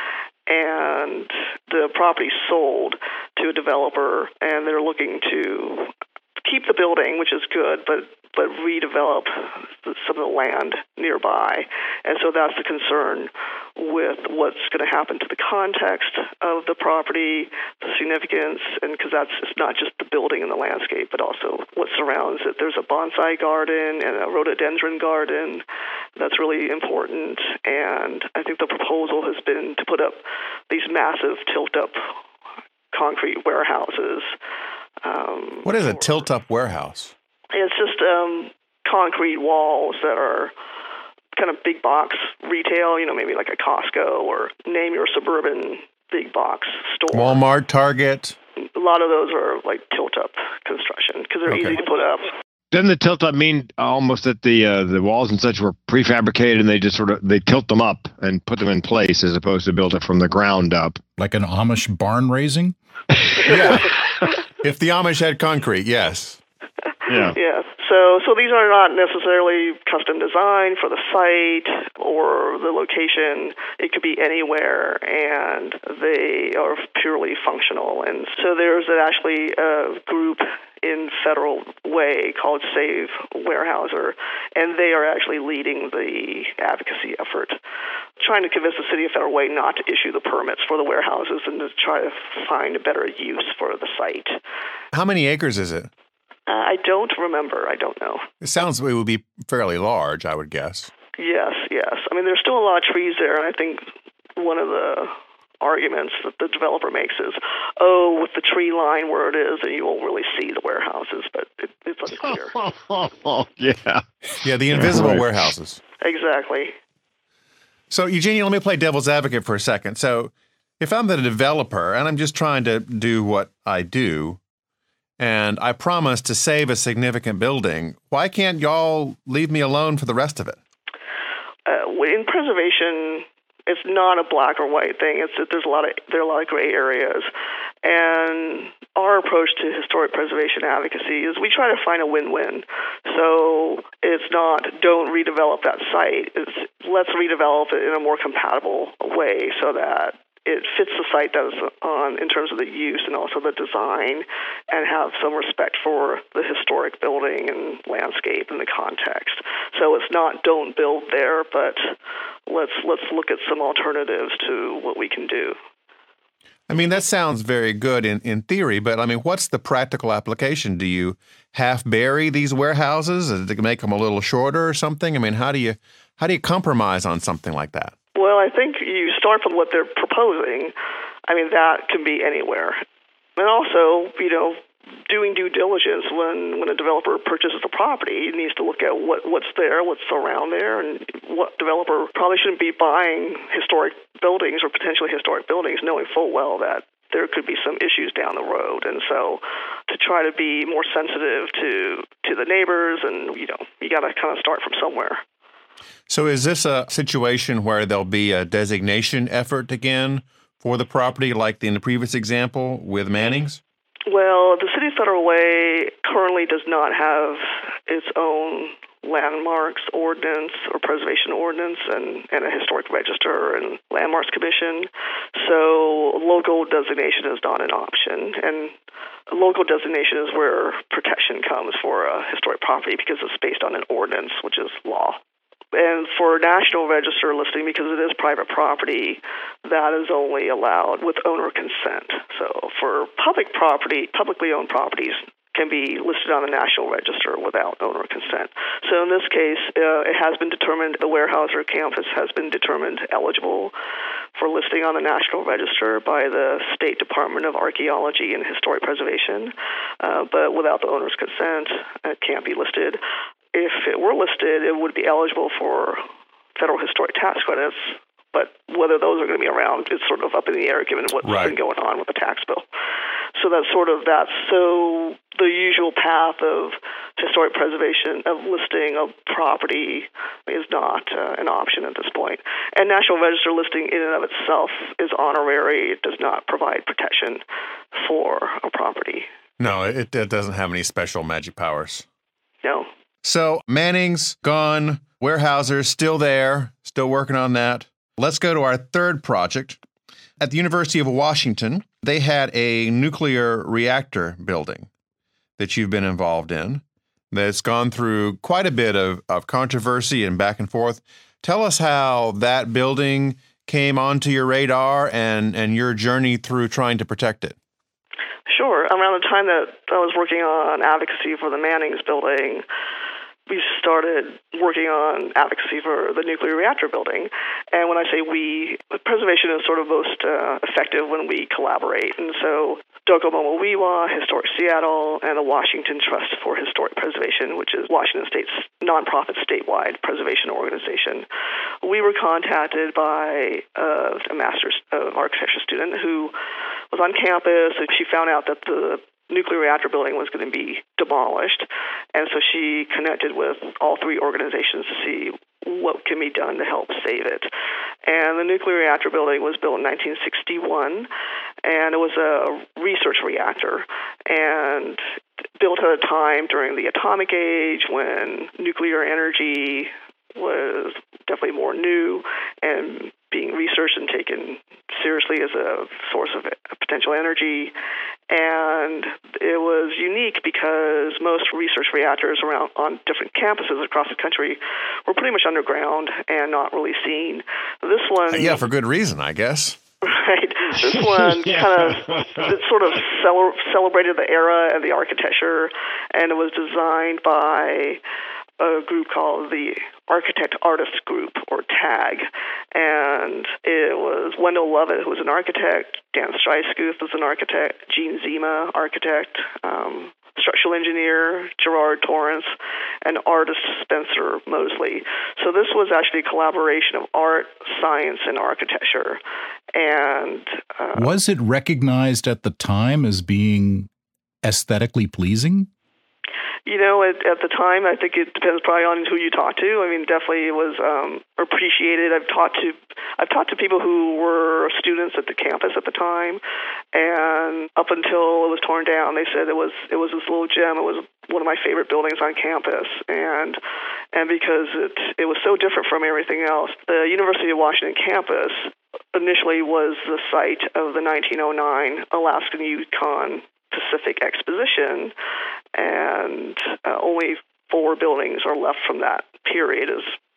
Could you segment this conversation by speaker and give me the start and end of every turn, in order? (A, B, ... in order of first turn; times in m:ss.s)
0:00.5-0:25.6 A
0:26.2-0:32.1 A
0:32.9-0:34.3 A
0:35.0-0:36.2 A
0:35.6-0:37.1 B
0:37.5-0:40.5 A
0:41.3-0:47.4 A
0:47.1-0:48.4 B
0:48.7-0:52.3 A
0:51.5-0:51.8 B
0:52.7-1:01.0 C
1:01.2-1:02.8 D
1:03.3-1:04.3 C
1:03.4-1:03.8 A
1:03.5-1:03.9 B
1:04.6-1:06.4 B
1:07.0-1:27.6 A
1:07.1-1:07.4 C
1:28.2-1:34.4 A
1:34.9-1:35.9 B
1:36.5-1:38.3 A
1:38.4-1:40.9 B
1:41.2-1:52.6 A
1:52.2-1:54.0 C
1:54.4-1:55.8 B
1:54.7-1:55.3 C
1:56.0-1:56.7 A
1:57.9-2:04.4 B
2:05.2-2:10.6 B
2:11.6-2:17.3 A
2:17.8-2:41.9 A
2:42.5-2:45.6 A
2:46.7-2:57.9 B
2:58.1-3:00.7 A
3:01.3-3:02.8 A
3:03.4-3:25.2 A
3:26.1-3:33.6 B
3:34.1-3:48.7 A
3:49.3-3:55.2 A
3:55.7-4:13.7 A
4:14.4-4:23.0 A
4:23.5-4:26.0 A
4:26.6-4:32.6 A
4:31.2-4:31.5 B
4:33.4-4:47.4 A
4:47.9-4:49.3 A
4:49.6-4:52.0 B
4:52.6-4:52.9 A
4:53.2-4:59.8 B
5:00.4-5:04.9 B
5:05.6-5:17.6 B
5:18.5-5:22.6 A
5:23.5-5:41.3 A
5:41.8-5:46.3 A
5:46.9-5:57.5 A
5:58.0-6:01.1 A
6:01.6-6:05.0 A
6:05.6-6:17.7 A
6:18.3-6:28.6 A
6:28.3-6:29.8 B
6:30.0-6:38.0 A
6:31.4-6:32.5 C
6:38.6-6:52.5 A
6:53.0-6:59.2 A
6:59.7-7:01.1 A
7:00.9-7:03.9 D
7:04.4-7:05.7 D
7:06.6-7:16.4 A
7:16.9-7:23.6 A
7:24.1-7:35.1 A
7:35.7-7:40.2 A